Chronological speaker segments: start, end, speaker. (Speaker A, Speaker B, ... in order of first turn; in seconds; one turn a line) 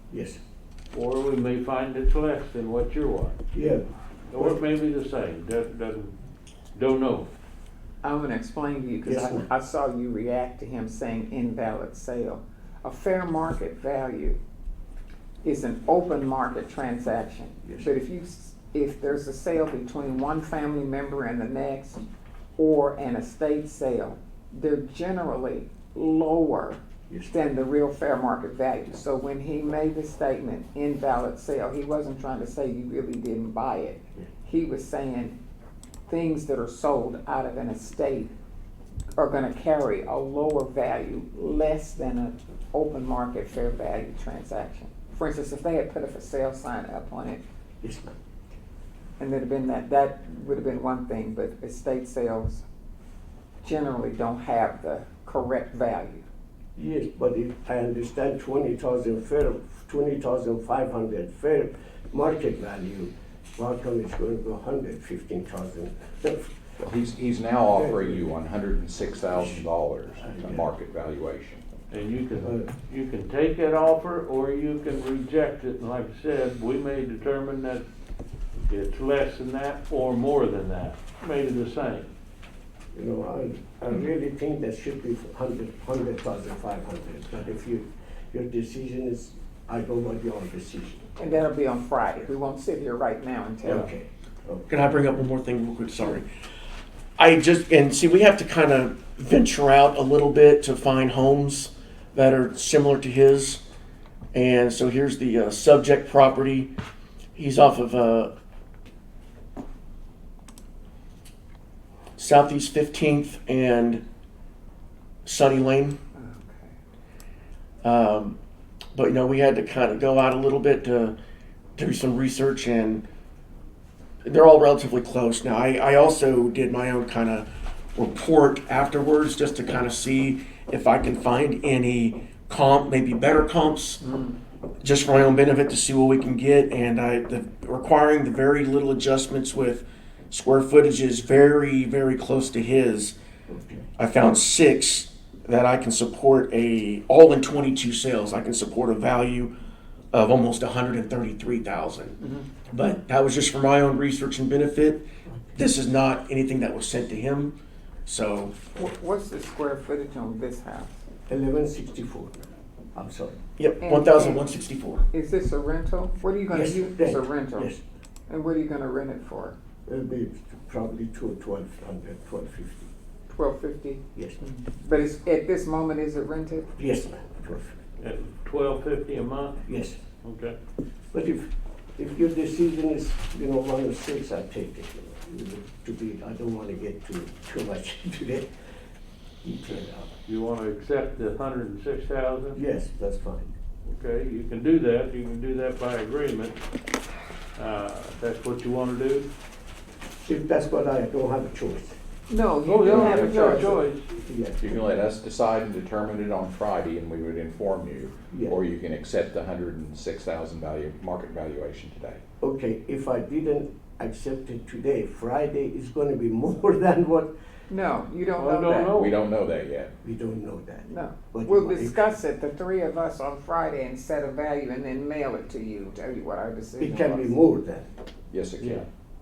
Speaker A: 0.1-0.4
Speaker B: 0.9-3.4
Speaker A: 3.5-3.8
Speaker B: 4.3-6.2
Speaker B: 6.7-7.3
Speaker C: 8.0-14.4
Speaker A: 9.0-9.5
Speaker C: 15.4-35.4
Speaker A: 17.6-17.9
Speaker A: 27.1-27.4
Speaker C: 36.1-38.3
Speaker C: 39.2-47.4
Speaker A: 47.8-48.1
Speaker C: 49.2-52.6
Speaker C: 53.6-56.2
Speaker A: 56.8-66.8
Speaker D: 66.8-71.6
Speaker A: 67.7-68.2
Speaker A: 69.3-70.7
Speaker B: 71.9-77.8
Speaker A: 72.4-72.7
Speaker B: 78.7-82.1
Speaker A: 82.9-91.1
Speaker C: 91.2-93.9
Speaker A: 93.6-94.7
Speaker E: 94.7-96.3
Speaker E: 97.2-103.6
Speaker E: 104.3-106.7
Speaker E: 107.3-108.3
Speaker E: 112.2-114.0
Speaker E: 115.2-116.0
Speaker C: 116.1-116.8
Speaker E: 117.8-118.4
Speaker E: 118.9-121.1
Speaker E: 121.8-123.0
Speaker E: 124.2-134.0
Speaker C: 134.0-134.4
Speaker E: 134.8-143.1
Speaker A: 143.5-143.9
Speaker E: 144.0-149.5
Speaker E: 150.1-152.2
Speaker C: 152.2-152.5
Speaker E: 152.7-158.6
Speaker C: 158.7-161.0
Speaker A: 161.3-163.4
Speaker E: 163.6-165.0
Speaker C: 163.8-164.4
Speaker C: 165.1-167.7
Speaker A: 166.5-167.8
Speaker C: 168.3-169.6
Speaker A: 169.8-172.9
Speaker C: 173.3-176.7
Speaker A: 174.2-174.4
Speaker A: 176.8-177.8
Speaker B: 178.0-179.6
Speaker A: 179.7-180.0
Speaker B: 180.2-180.5
Speaker A: 181.1-188.5
Speaker A: 189.4-190.1
Speaker B: 190.2-192.6
Speaker A: 192.5-193.5
Speaker B: 193.8-196.6
Speaker B: 197.6-199.3
Speaker A: 200.2-202.0
Speaker C: 202.3-203.8
Speaker B: 202.7-204.0
Speaker A: 202.9-203.6
Speaker D: 203.0-203.8
Speaker A: 204.2-204.6
Speaker D: 204.6-212.2
Speaker A: 208.3-208.6
Speaker A: 212.4-217.3
Speaker C: 217.7-219.1
Speaker B: 218.4-219.1
Speaker D: 218.9-219.9
Speaker A: 220.0-222.2
Speaker C: 220.9-227.3
Speaker A: 226.8-227.9
Speaker D: 228.3-228.8
Speaker B: 228.6-228.8